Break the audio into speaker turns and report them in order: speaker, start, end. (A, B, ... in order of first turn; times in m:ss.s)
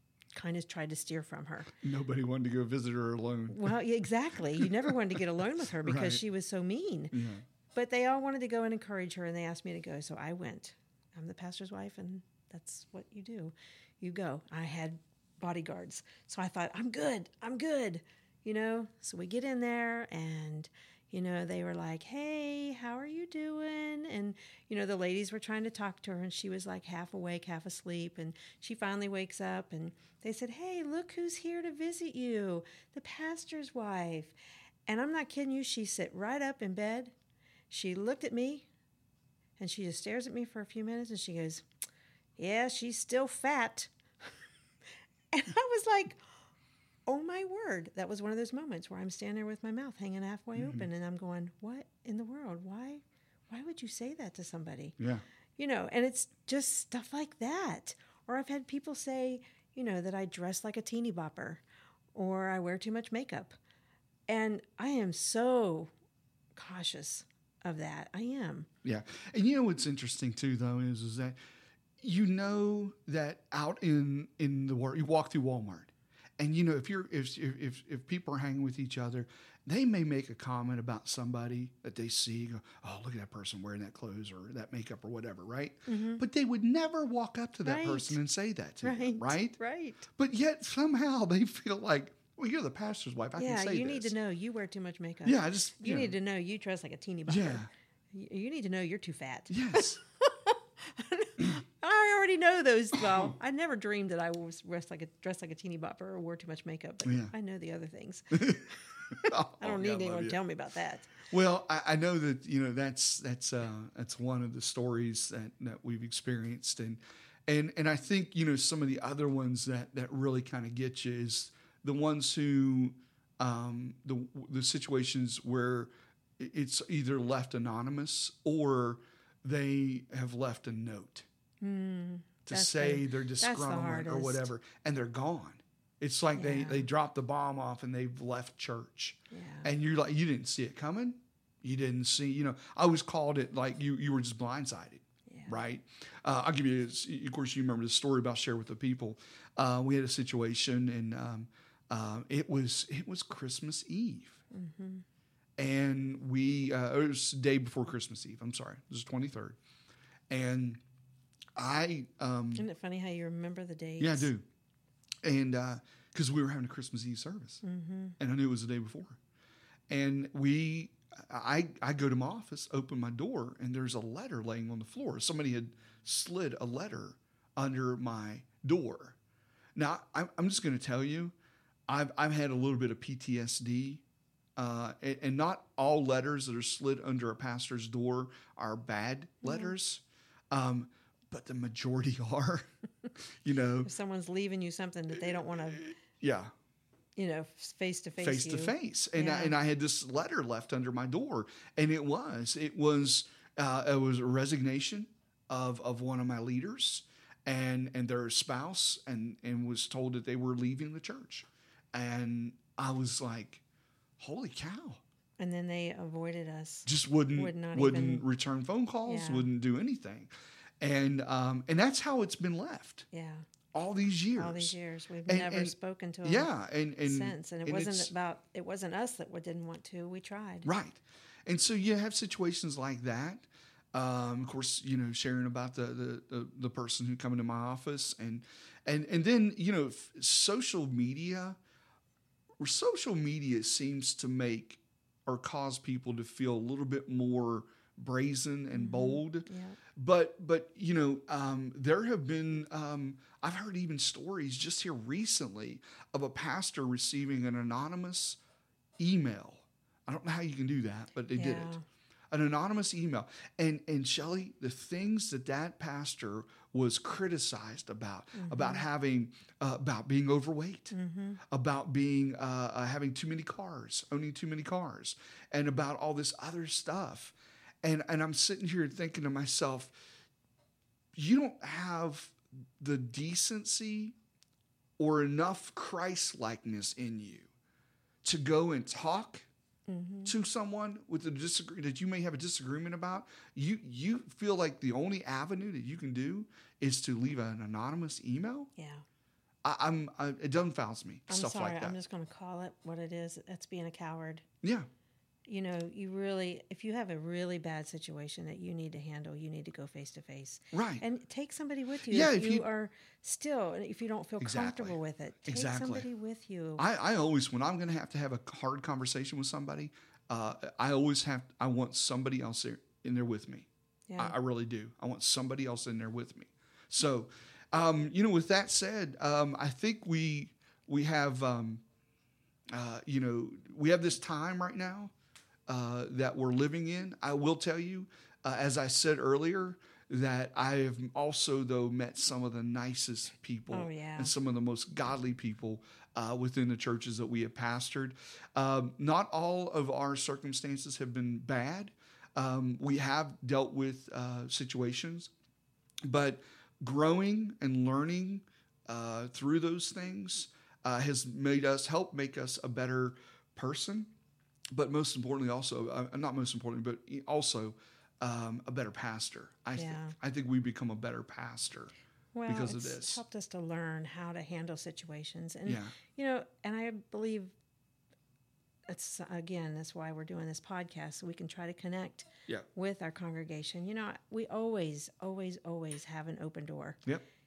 0:00.3-0:01.7 A
0:01.8-0:03.8 B
0:03.5-0:07.2 A
0:04.6-0:05.0 B
0:05.8-0:06.2 B
0:07.1-0:07.4 B
0:07.7-0:34.4 A
0:34.9-0:37.1 A
0:37.7-0:38.7 A
0:39.6-0:41.7 A
0:42.4-0:43.9 A
0:45.3-0:46.2 A
0:47.1-0:55.0 A
0:50.6-0:50.9 B
0:55.0-0:55.2 B
0:55.6-1:01.6 A
1:02.1-1:03.6 A
1:04.3-1:05.9 A
1:06.6-1:08.7 A
1:08.8-1:11.4 B
1:12.0-1:29.6 B
1:25.9-1:26.2 A
1:27.6-1:28.2 A
1:28.8-1:30.1 A
1:30.2-1:34.1 B
1:33.4-1:51.1 A
1:35.2-1:36.1 B
1:37.3-1:37.7 B
1:39.5-1:40.0 B
1:43.0-1:43.3 B
1:47.0-1:47.3 B
1:48.3-1:50.4 B
1:51.2-2:11.3 B
2:11.6-2:14.5 A
2:12.5-2:34.4 B
2:16.4-2:16.9 A
2:19.3-2:19.7 A
2:25.3-2:25.6 A
2:34.5-2:35.0 A
2:35.6-2:39.6 B
2:40.3-2:40.8 B
2:41.6-2:42.6 B
2:42.6-2:44.3 A
2:44.0-2:44.4 B
2:45.2-2:47.6 B
2:47.6-2:48.2 A
2:48.2-2:49.2 B
2:49.9-2:59.2 B
2:59.8-3:01.4 B
3:01.9-3:04.0 B
3:04.6-3:13.9 B
3:09.4-3:09.7 A
3:13.8-3:15.9 A
3:15.4-3:16.5 B
3:17.2-3:19.6 A
3:18.2-3:33.6 B
3:34.2-3:35.0 B
3:35.4-3:38.3 A
3:36.9-3:43.1 B
3:39.0-3:39.5 A
3:43.1-3:43.5 A
3:43.7-3:44.8 B
3:44.3-3:46.5 A
3:45.3-3:48.1 B
3:47.0-3:50.7 A
3:50.6-4:01.6 B
4:02.6-4:18.4 B
4:08.8-4:09.8 A
4:19.0-4:21.8 B
4:21.4-4:21.8 A
4:22.3-4:30.9 B
4:28.4-4:28.8 A
4:30.9-4:31.4 A
4:31.5-4:40.0 B
4:41.1-4:44.2 B
4:45.0-4:47.5 B
4:48.2-4:49.5 B
4:49.9-4:50.3 A
4:50.3-4:58.7 B
4:58.8-4:59.0 A
4:59.6-5:02.0 B
5:01.3-5:04.4 A
5:04.6-5:04.9 B
5:05.5-5:16.8 A
5:10.7-5:11.0 B
5:12.1-5:12.6 B
5:14.4-5:16.1 B
5:16.8-5:31.8 B
5:24.1-5:24.4 A
5:32.7-5:35.1 B
5:35.7-5:55.3 B
5:43.7-5:44.3 A
5:56.1-6:04.1 B
6:04.7-6:12.0 B
6:09.8-6:10.2 A
6:12.3-6:17.5 A
6:12.5-6:13.2 B
6:15.7-6:16.0 B
6:18.9-6:27.0 A